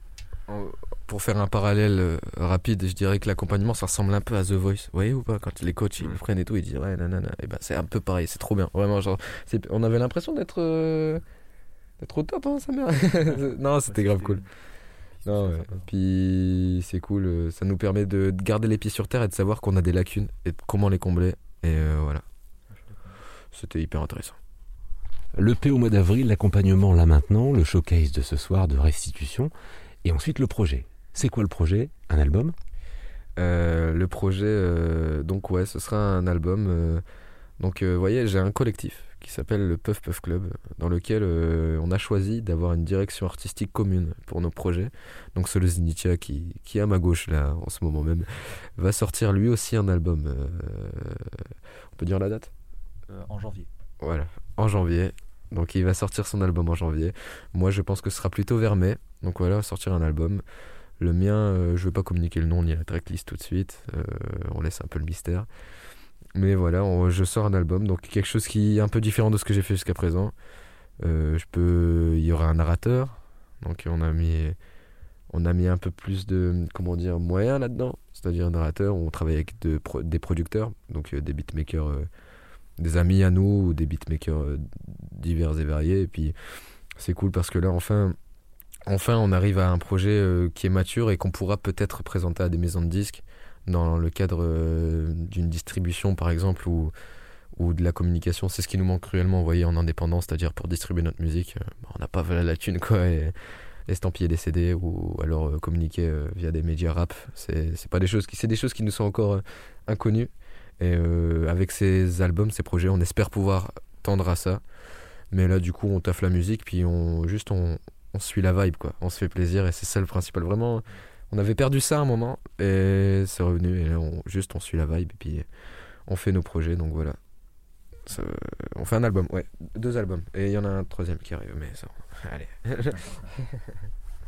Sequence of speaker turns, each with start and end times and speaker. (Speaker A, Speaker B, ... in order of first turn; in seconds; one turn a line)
Speaker A: 0.5-11.2
Speaker A: 12.0-14.4
Speaker B: 13.3-14.5
Speaker B: 15.2-15.8
Speaker A: 15.2-22.2
Speaker B: 22.7-23.2
Speaker A: 23.5-24.4
Speaker C: 25.3-29.5
Speaker C: 30.0-32.5
Speaker A: 33.4-37.0
Speaker A: 37.6-52.5
Speaker B: 53.1-53.7
Speaker A: 54.0-60.4
Speaker A: 61.0-65.5
Speaker A: 66.3-70.3
Speaker A: 71.0-74.5
Speaker A: 75.3-82.1
Speaker A: 82.8-86.3
Speaker A: 87.0-88.2
Speaker A: 88.9-96.9
Speaker A: 97.5-103.3
Speaker A: 103.9-114.6
Speaker A: 115.3-125.4
Speaker A: 126.1-127.2
Speaker A: 128.1-133.6